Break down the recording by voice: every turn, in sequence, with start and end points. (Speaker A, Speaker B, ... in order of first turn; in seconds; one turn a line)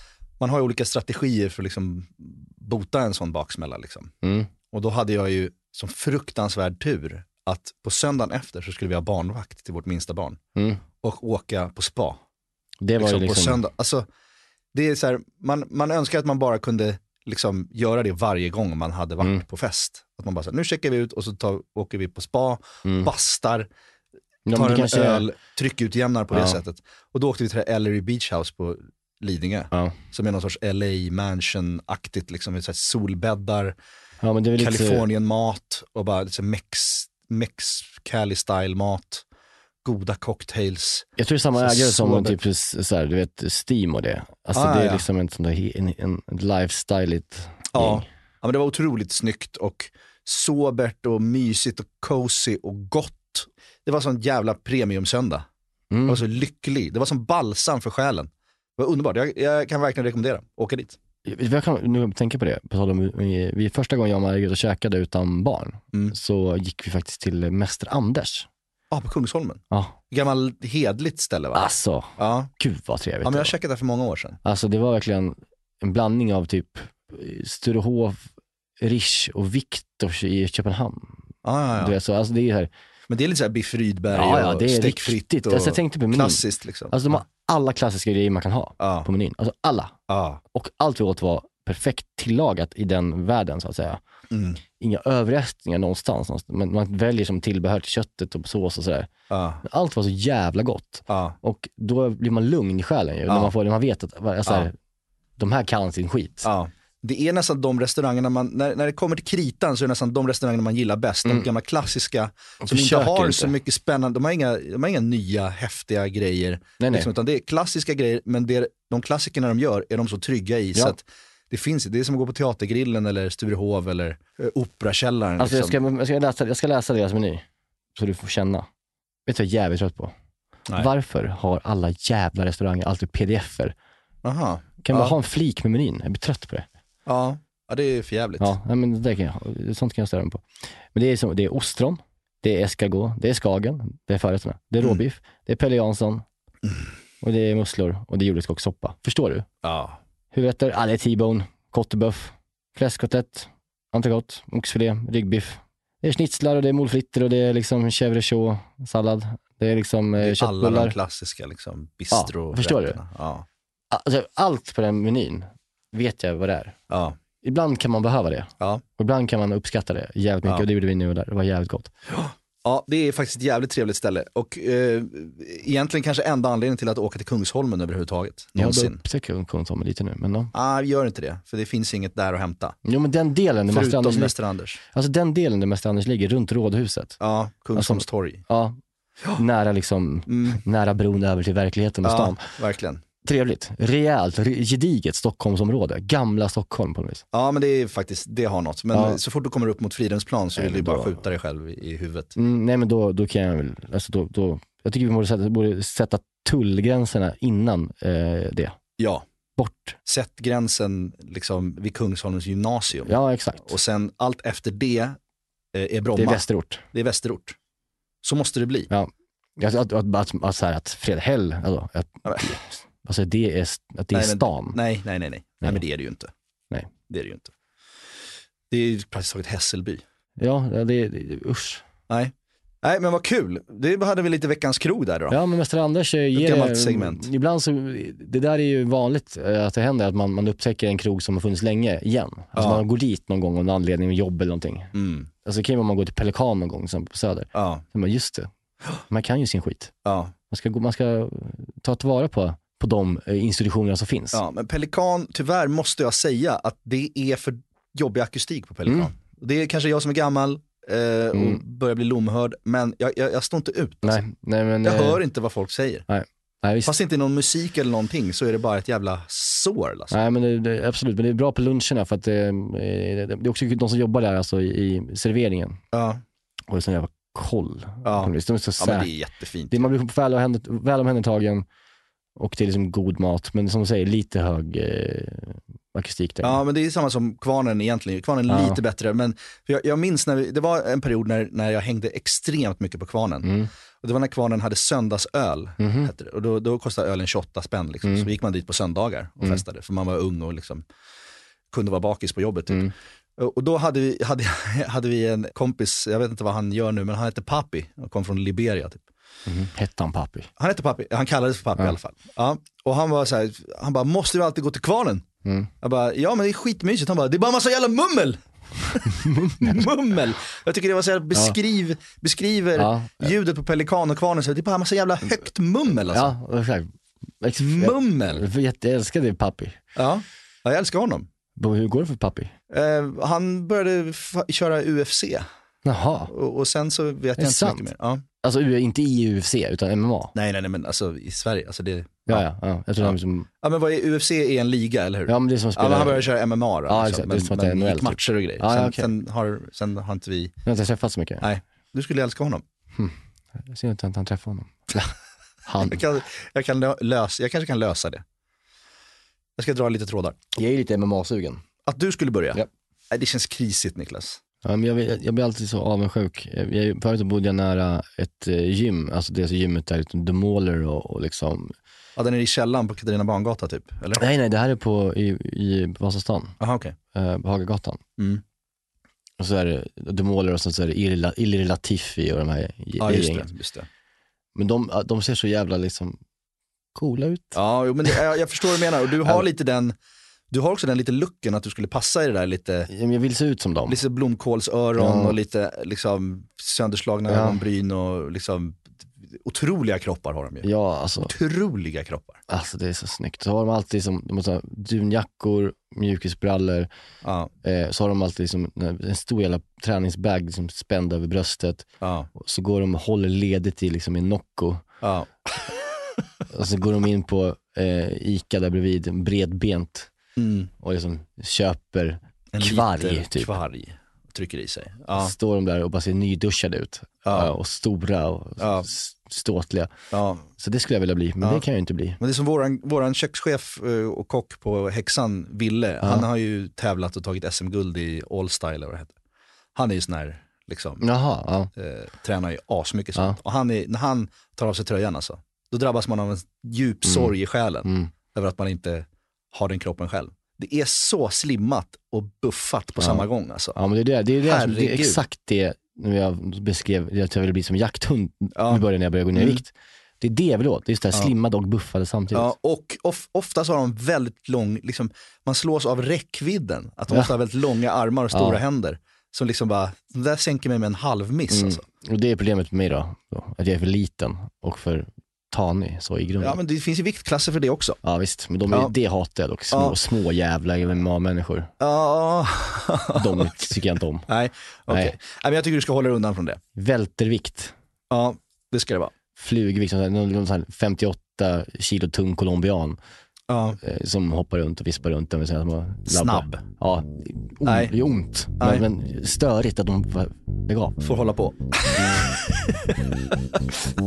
Speaker A: 0.4-4.1
Speaker B: 4.2-4.5
Speaker A: 4.7-10.4
Speaker B: 10.6-10.8
Speaker A: 11.0-12.2
Speaker B: 12.8-13.6
Speaker A: 13.0-14.1
Speaker A: 14.7-23.7
Speaker B: 22.9-23.1
Speaker B: 24.5-25.3
Speaker A: 24.5-33.8
Speaker B: 26.3-26.6
Speaker B: 29.7-30.0
Speaker B: 34.2-35.0
Speaker A: 34.6-39.2
Speaker A: 39.8-42.4
Speaker B: 41.2-48.1
Speaker A: 44.5-45.0
Speaker A: 47.7-55.5
Speaker B: 55.9-56.2
Speaker A: 56.1-61.0
Speaker B: 61.2-68.5
Speaker A: 68.9-71.7
Speaker B: 69.7-70.0
Speaker B: 71.5-73.5
Speaker A: 72.2-72.5
Speaker A: 73.2-74.4
Speaker B: 74.5-78.2
Speaker B: 78.8-81.2
Speaker A: 81.4-82.0
Speaker B: 81.8-82.7
Speaker A: 83.1-87.2
Speaker B: 84.1-90.0
Speaker A: 88.8-89.1
Speaker A: 90.1-90.4
Speaker B: 90.5-94.0
Speaker A: 94.3-94.6
Speaker B: 94.8-99.1
Speaker A: 99.3-99.6
Speaker B: 99.6-104.8
Speaker A: 101.1-101.4
Speaker A: 103.3-103.5
Speaker B: 105.4-106.5
Speaker A: 106.4-125.8
Speaker B: 112.6-113.5
Speaker B: 116.8-117.1
Speaker B: 125.4-127.4
Speaker B: 128.0-128.7
Speaker B: 129.3-130.1
Speaker B: 130.8-133.8
Speaker A: 134.2-135.2
Speaker B: 134.8-136.7
Speaker A: 137.1-138.5
Speaker B: 138.4-146.2
Speaker B: 147.2-149.5
Speaker A: 149.6-150.0
Speaker B: 150.3-161.0
Speaker A: 160.2-163.5
Speaker B: 162.1-163.0
Speaker B: 163.9-166.8
Speaker A: 166.9-167.2
Speaker B: 167.4-171.9
Speaker A: 172.1-179.0
Speaker B: 178.6-180.5
Speaker A: 180.5-182.8
Speaker B: 182.8-184.3
Speaker A: 183.7-184.8
Speaker B: 184.9-187.2
Speaker A: 187.2-188.4
Speaker B: 187.8-188.8
Speaker B: 189.3-192.4
Speaker A: 190.3-190.6
Speaker A: 192.0-193.0
Speaker B: 193.2-197.2
Speaker A: 197.3-202.4
Speaker B: 198.9-199.2
Speaker B: 200.6-201.2
Speaker B: 202.4-208.8
Speaker A: 209.0-209.2
Speaker B: 209.6-210.0
Speaker A: 210.1-215.2
Speaker B: 213.1-213.8
Speaker A: 215.7-217.6
Speaker B: 216.2-216.8
Speaker A: 218.2-218.9
Speaker B: 218.9-224.8
Speaker A: 222.3-222.6
Speaker A: 224.1-226.3
Speaker A: 227.1-227.5
Speaker A: 228.7-230.0
Speaker B: 230.4-231.8
Speaker A: 232.1-235.4
Speaker B: 235.3-244.9
Speaker A: 236.3-237.3
Speaker A: 242.6-242.8
Speaker A: 244.9-245.3
Speaker B: 245.4-248.5
Speaker A: 247.6-247.8
Speaker B: 249.1-249.9
Speaker A: 250.1-250.3
Speaker B: 250.5-254.4
Speaker A: 254.3-264.2
Speaker B: 258.9-259.1
Speaker B: 261.3-261.6
Speaker B: 264.0-265.2
Speaker A: 264.8-266.1
Speaker B: 266.1-267.0
Speaker A: 266.9-270.2
Speaker B: 270.1-275.8
Speaker A: 275.9-276.2
Speaker B: 276.7-279.1
Speaker A: 278.1-279.9
Speaker B: 279.7-281.7
Speaker B: 282.4-286.6
Speaker A: 286.4-300.8
Speaker B: 288.5-288.8
Speaker B: 293.4-293.7
Speaker B: 295.8-296.1
Speaker A: 301.7-309.0
Speaker B: 309.5-310.5
Speaker A: 310.6-315.2
Speaker B: 315.4-315.7
Speaker A: 315.8-326.3
Speaker B: 319.2-319.9
Speaker B: 322.8-323.3
Speaker B: 326.1-326.9
Speaker B: 327.4-329.8
Speaker A: 327.6-328.4
Speaker A: 330.0-331.3
Speaker B: 331.6-332.5
Speaker A: 332.7-335.5
Speaker B: 335.9-336.3
Speaker A: 336.3-338.2
Speaker B: 337.4-337.9
Speaker B: 338.4-340.3
Speaker A: 340.4-342.4
Speaker B: 342.3-343.5
Speaker A: 343.0-350.6
Speaker B: 345.3-346.3
Speaker B: 346.9-349.1
Speaker B: 350.7-351.5
Speaker A: 351.4-352.6
Speaker B: 352.9-355.1
Speaker B: 355.7-356.0
Speaker A: 355.8-358.2
Speaker A: 359.6-360.4
Speaker B: 360.6-361.6
Speaker A: 361.9-364.4
Speaker B: 364.6-371.7
Speaker A: 372.2-374.2
Speaker B: 374.2-376.6
Speaker A: 376.6-376.9
Speaker B: 377.1-378.0
Speaker B: 379.4-383.5
Speaker A: 383.0-383.9
Speaker B: 384.6-386.2
Speaker B: 386.9-387.6
Speaker A: 387.6-389.9
Speaker A: 390.5-392.9
Speaker B: 392.9-394.0
Speaker A: 393.9-398.8
Speaker B: 395.0-395.4
Speaker B: 397.3-397.6
Speaker A: 399.4-400.7
Speaker B: 400.6-401.3
Speaker A: 401.2-402.4
Speaker B: 402.5-406.9
Speaker A: 407.2-407.5
Speaker B: 407.6-414.8
Speaker A: 412.0-412.3
Speaker A: 415.0-415.7
Speaker B: 416.5-420.1
Speaker A: 420.4-420.7
Speaker B: 420.8-423.5
Speaker A: 422.5-425.3
Speaker B: 425.1-429.9
Speaker A: 427.2-427.5
Speaker A: 428.6-428.9
Speaker A: 430.1-430.5
Speaker B: 430.6-432.2
Speaker A: 432.2-439.1
Speaker B: 436.0-436.3
Speaker A: 439.8-441.1
Speaker B: 441.0-441.7
Speaker A: 441.8-453.8
Speaker B: 447.1-447.3
Speaker B: 447.9-448.1
Speaker B: 453.0-462.5
Speaker A: 454.4-455.2
Speaker A: 458.6-458.8
Speaker A: 459.4-459.6
Speaker A: 462.3-471.8
Speaker B: 468.3-468.6
Speaker B: 471.5-476.6
Speaker A: 476.4-478.0
Speaker B: 478.0-481.7
Speaker A: 479.7-480.0
Speaker A: 481.8-483.7
Speaker B: 483.1-484.3
Speaker A: 484.3-486.6
Speaker B: 484.9-485.2
Speaker B: 486.8-487.8
Speaker A: 488.1-489.1
Speaker B: 489.4-493.0
Speaker A: 493.5-493.8
Speaker B: 493.8-501.0
Speaker A: 496.1-496.6
Speaker A: 497.6-497.9
Speaker A: 498.6-498.9
Speaker A: 501.0-503.6